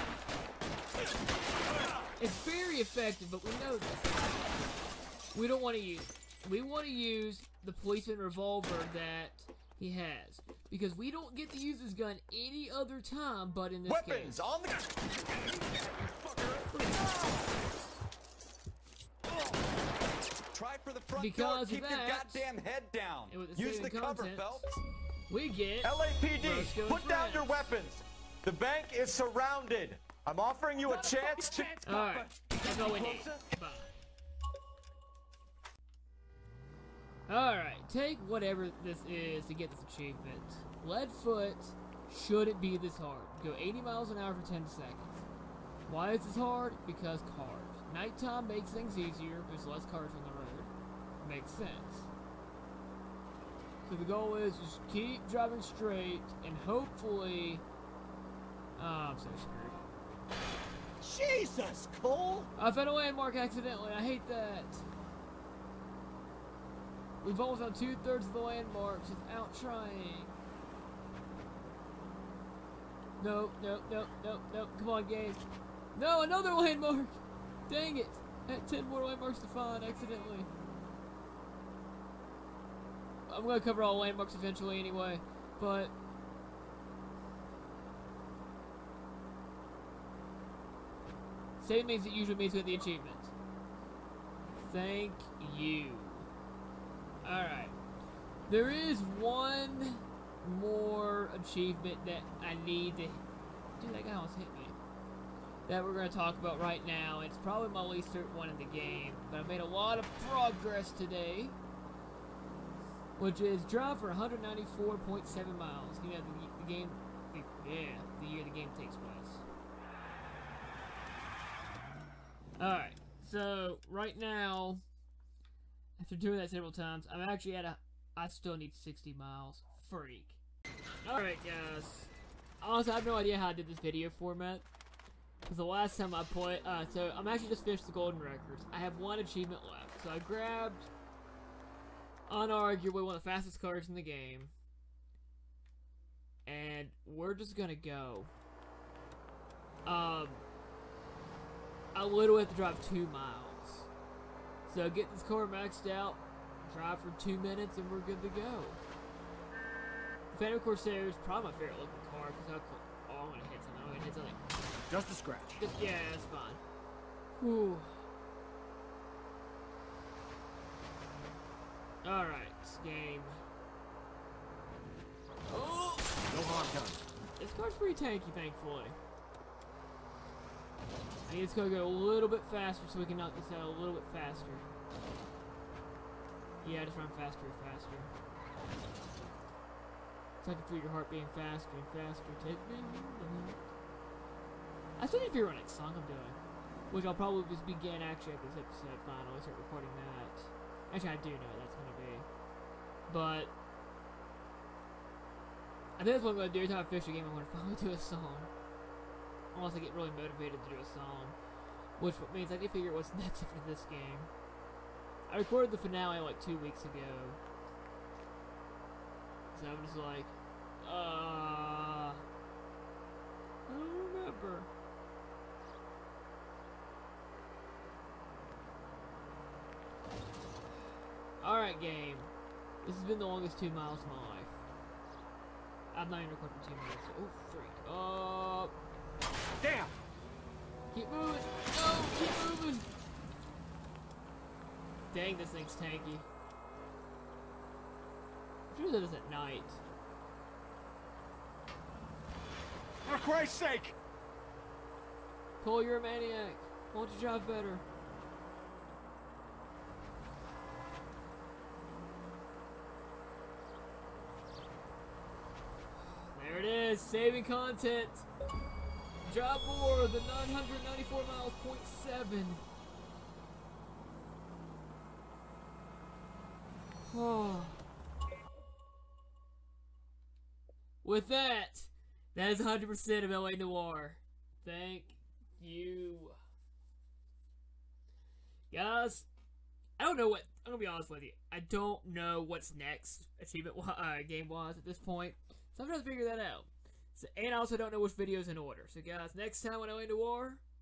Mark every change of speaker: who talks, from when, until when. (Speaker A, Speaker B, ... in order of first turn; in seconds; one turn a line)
Speaker A: 2.2-4.4
Speaker A: 5.3-14.5
Speaker B: 13.9-17.3
Speaker A: 16.7-17.2
Speaker B: 20.5-24.8
Speaker A: 21.1-22.5
Speaker A: 23.3-24.7
Speaker A: 25.3-27.7
Speaker B: 25.8-31.8
Speaker C: 30.9-33.3
Speaker A: 31.8-33.9
Speaker B: 32.7-33.3
Speaker A: 37.3-45.1
Speaker A: 45.9-52.1
Speaker A: 53.8-57.6
Speaker A: 58.8-59.8
Speaker C: 61.0-62.5
Speaker A: 62.5-64.8
Speaker A: 67.2-70.3
Speaker A: 73.2-75.4
Speaker A: 75.9-80.5
Speaker A: 83.3-85.9
Speaker A: 91.6-93.3
Speaker A: 94.6-96.3
Speaker A: 97.2-97.8
Speaker A: 98.5-103.2
Speaker A: 103.8-104.8
Speaker A: 105.7-111.5
Speaker A: 113.2-119.4
Speaker A: 122.6-124.8
Speaker A: 126.0-130.4
Speaker A: 131.0-134.7
Speaker A: 135.4-140.9
Speaker A: 142.3-144.5
Speaker A: 146.4-148.3
Speaker A: 149.8-150.4
Speaker A: 151.9-153.9
Speaker A: 154.7-158.8
Speaker A: 160.3-164.4
Speaker C: 164.9-165.6
Speaker A: 165.6-166.6
Speaker A: 167.3-168.0
Speaker A: 172.0-173.4
Speaker A: 175.5-176.2
Speaker C: 176.3-177.0
Speaker A: 177.4-179.0
Speaker A: 181.2-184.7
Speaker A: 186.6-188.1
Speaker A: 190.4-193.7
Speaker A: 195.0-202.3
Speaker A: 203.1-203.5
Speaker A: 206.0-208.5
Speaker A: 209.5-211.4
Speaker A: 212.0-214.3
Speaker A: 215.3-217.4
Speaker A: 219.5-222.2
Speaker A: 223.7-224.7
Speaker A: 231.4-232.3
Speaker A: 232.8-234.6
Speaker A: 235.9-238.7
Speaker C: 239.6-239.9
Speaker A: 240.9-242.9
Speaker A: 245.1-246.2
Speaker A: 248.7-249.8
Speaker C: 253.0-253.9
Speaker A: 255.6-257.8
Speaker A: 266.0-268.3
Speaker A: 269.2-272.6
Speaker A: 277.0-277.8
Speaker A: 281.0-286.4
Speaker A: 288.7-289.3
Speaker A: 290.0-300.6